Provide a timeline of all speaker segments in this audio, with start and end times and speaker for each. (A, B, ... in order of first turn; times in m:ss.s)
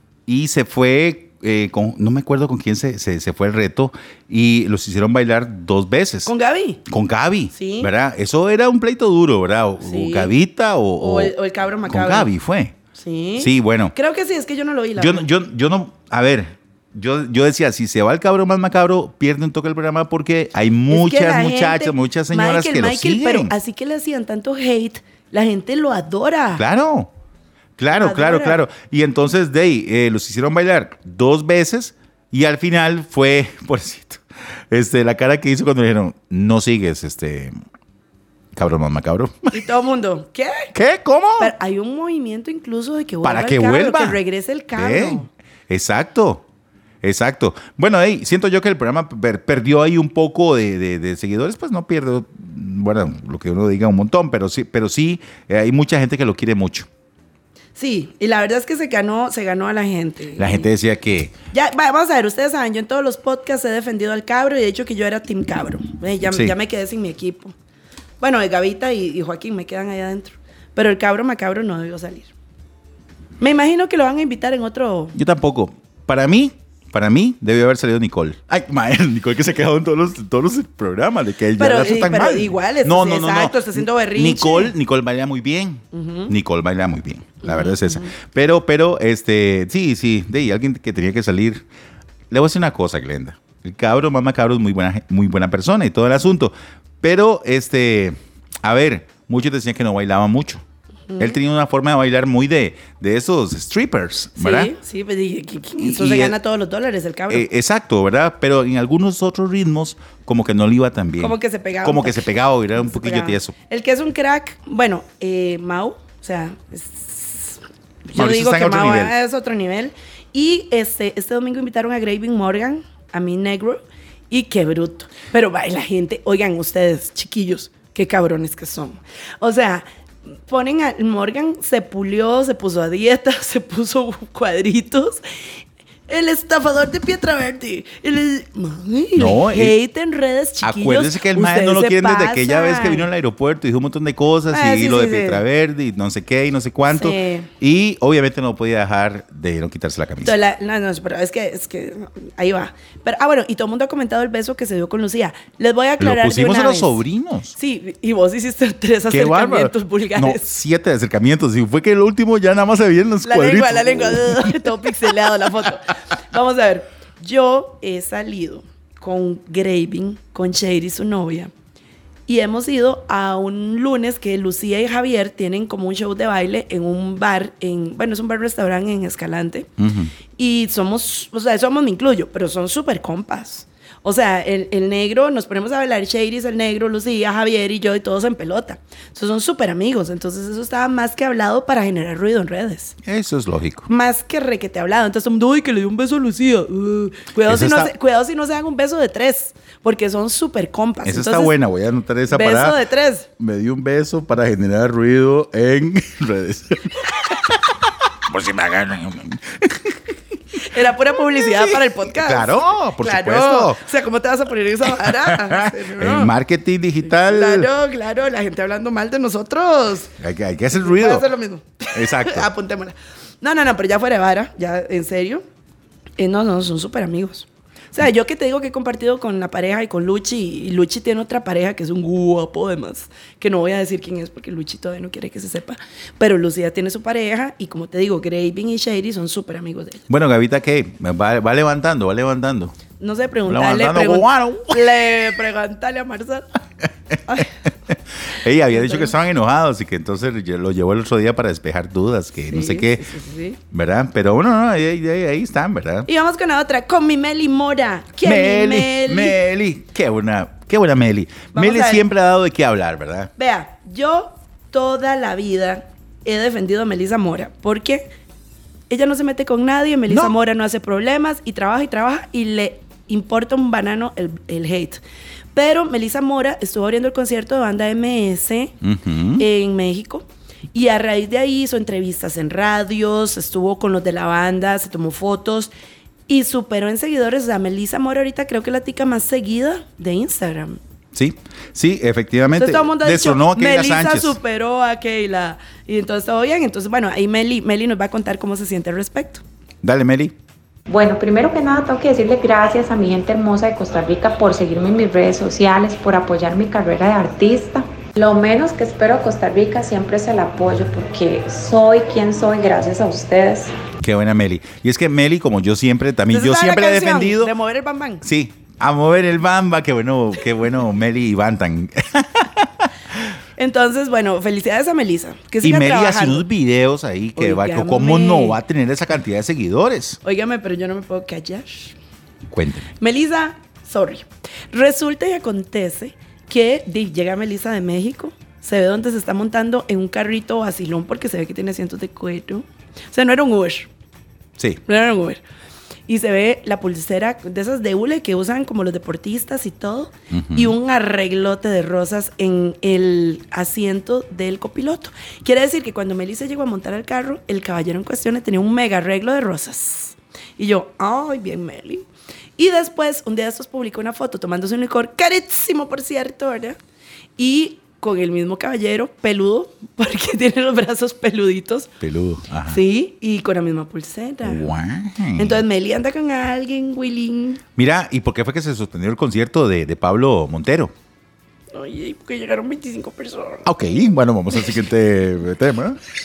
0:00.3-0:06.3 A
0:06.2-0:06.8 B
0:06.8-0:11.3 A
0:07.5-0:07.9 B
0:09.8-0:10.3 B
0:11.0-0:12.3 B
0:11.8-0:12.8 A
0:12.9-0:15.3 B
0:13.4-0:13.9 A
0:15.0-0:23.5 A
0:20.9-0:26.6 B
0:26.6-0:27.1 A
0:27.8-0:37.6 A
0:27.9-0:28.6 B
0:38.5-0:39.6 A
0:39.5-0:40.7 B
0:40.7-0:41.5 A
0:41.4-0:45.3 B
0:43.2-0:44.2 A
0:44.7-0:46.4 A
0:47.0-0:56.9 A
0:57.8-1:00.7 B
1:00.4-1:01.3 A
1:01.5-1:07.5 B
1:06.3-1:06.5 A
1:08.2-1:12.3 B
1:13.4-1:15.2 B
1:15.1-1:31.6 A
1:21.6-1:24.7 B
1:25.9-1:26.3 B
1:27.4-1:28.1 B
1:32.3-1:40.6 A
1:41.1-1:41.4 B
1:41.2-1:44.7 A
1:44.4-1:47.5 B
1:45.8-1:46.4 A
1:47.3-1:53.5 A
1:51.2-1:52.2 B
1:52.8-2:15.4 B
1:58.1-1:59.1 A
2:16.1-2:23.1 B
2:19.2-2:19.8 A
2:20.6-2:30.4 A
2:24.5-2:25.4 B
2:26.9-2:27.5 B
2:30.2-2:37.0 B
2:36.0-2:37.6 A
2:37.6-2:40.4 B
2:39.1-2:44.9 A
2:43.2-2:51.5 B
2:52.3-2:59.7 B
2:59.8-3:00.1 A
3:00.4-3:13.0 B
3:13.0-3:13.9 A
3:13.9-3:21.5 B
3:17.4-3:17.9 A
3:21.0-3:22.8 A
3:22.3-3:23.3 B
3:23.4-3:33.8 A
3:30.6-3:36.3 B
3:34.8-3:37.7 A
3:37.0-3:40.1 B
3:40.2-3:41.3 A
3:40.8-3:45.4 B
3:41.9-3:42.5 A
3:46.2-4:00.0 B
4:00.1-4:02.8 A
4:03.0-4:06.5 B
4:03.5-4:04.8 A
4:07.1-4:13.1 A
4:07.3-4:07.5 B
4:08.7-4:09.1 B
4:12.5-4:13.6 B
4:13.7-4:16.1 A
4:16.0-4:19.4 B
4:18.2-4:23.3 A
4:21.5-4:22.0 B
4:23.4-4:28.1 B
4:28.9-4:35.0 B
4:30.1-4:30.3 A
4:35.5-4:38.7 B
4:38.8-4:39.4 A
4:39.4-4:45.7 B
4:46.3-4:50.8 B
4:51.1-4:54.4 A
4:52.6-4:59.4 B
4:59.8-5:00.3 A
5:00.9-5:13.7 C
5:14.0-5:17.5 A
5:16.3-5:18.2 B
5:18.2-5:23.2 A
5:23.6-5:26.4 B
5:25.6-5:30.2 A
5:27.4-5:28.6 B
5:30.2-5:32.0 B
5:32.5-5:32.9 A
5:33.0-5:43.9 B
5:44.8-5:45.4 B
5:46.1-6:06.8 B
5:50.3-5:50.7 A
6:07.4-6:11.9 B
6:12.0-6:12.8 A
6:12.7-6:14.7 B
6:14.4-6:15.6 A
6:15.4-6:17.6 B
6:17.8-6:20.9 A
6:21.7-6:23.6 B
6:23.6-6:26.0 A